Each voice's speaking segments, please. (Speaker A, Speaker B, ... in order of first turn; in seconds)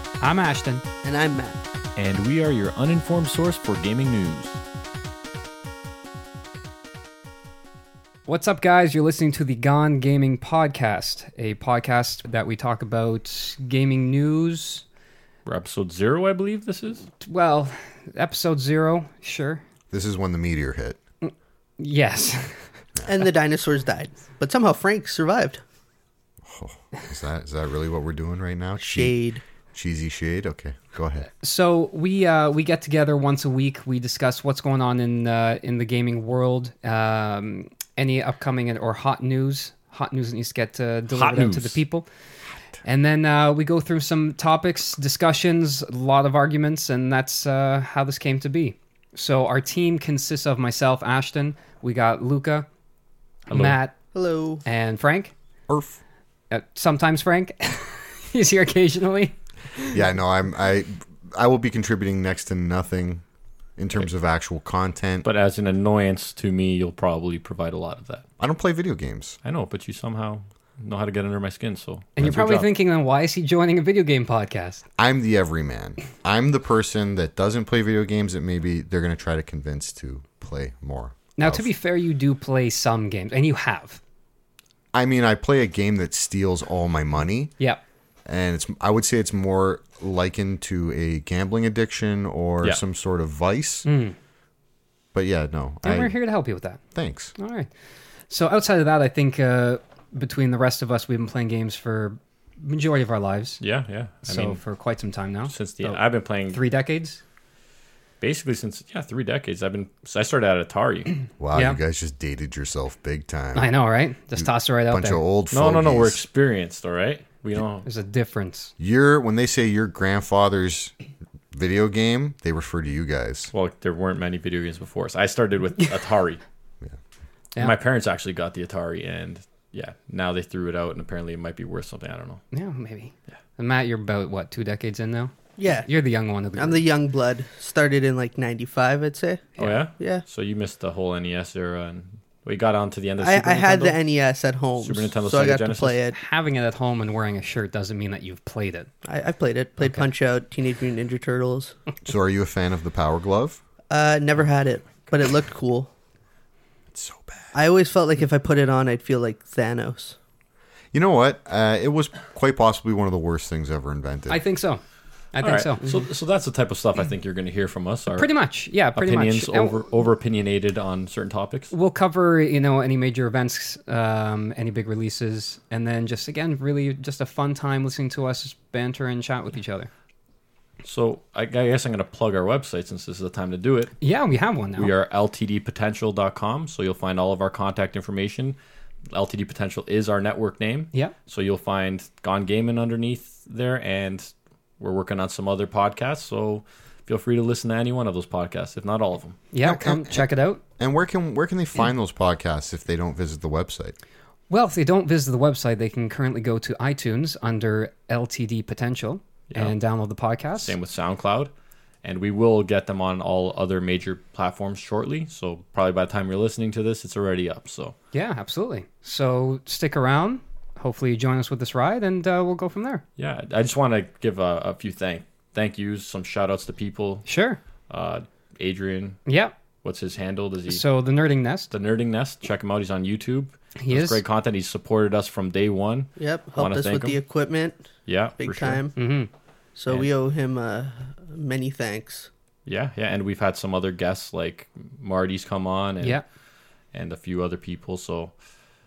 Speaker A: 0.2-0.8, 8.3-14.9, 17.2-19.6, 21.2-22.7, 31.4-42.1, 42.8-52.7, 53.5-54.0, 54.6-55.3, 56.5-60.0, 72.2-74.8, 81.4-84.0, 93.9-94.2, 95.8-96.8, 97.4-97.7, 98.3-103.6, 104.2-107.2, 111.5-111.8, 113.5-115.2, 117.8-118.7, 132.5-135.3, 135.8-136.8, 146.1-148.9, 164.3-164.8, 165.3-166.0, 168.1-169.9, 171.7-179.9, 184.0-184.9, 199.5-200.6, 204.5-210.8, 218.1-223.0, 227.2-227.6, 229.3-229.5, 230.7-231.7, 233.8-234.2, 239.0-239.3
Speaker B: 1.0-1.6, 23.1-25.6, 28.8-29.4, 54.1-54.6, 135.6-135.9, 136.6-140.2, 143.2-146.2, 149.1-151.8, 153.9-155.9, 157.5-160.2, 236.2-237.9, 238.4-239.0, 239.8-242.3
Speaker C: 2.0-4.6, 15.5-17.1, 41.1-41.8, 53.5-53.8, 65.2-68.2, 69.4-72.7, 103.6-104.6, 105.5-106.6, 108.2-111.3, 115.5-117.9, 123.5-126.4, 127.6-132.4, 139.6-144.0, 144.8-146.0, 165.4-168.3, 168.9-171.7, 180.8-183.9, 184.8-188.6, 189.1-199.4, 209.5-209.8, 210.6-211.5, 212.0-217.9, 223.2-227.2, 227.9-229.2, 229.8-230.8, 231.7-237.2, 238.1-238.8, 242.7-246.2, 246.9-248.3
Speaker D: 19.9-21.0, 26.4-29.2, 29.7-31.3, 55.7-56.0, 59.9-63.2, 63.8-65.3, 68.4-69.4, 75.0-81.7, 84.9-87.5, 88.3-93.9, 95.1-96.2, 97.0-97.3, 111.4-113.7, 114.4-116.2, 118.8-121.0, 121.5-123.5, 152.0-153.6, 156.9-157.5, 160.9-164.4, 199.6-204.0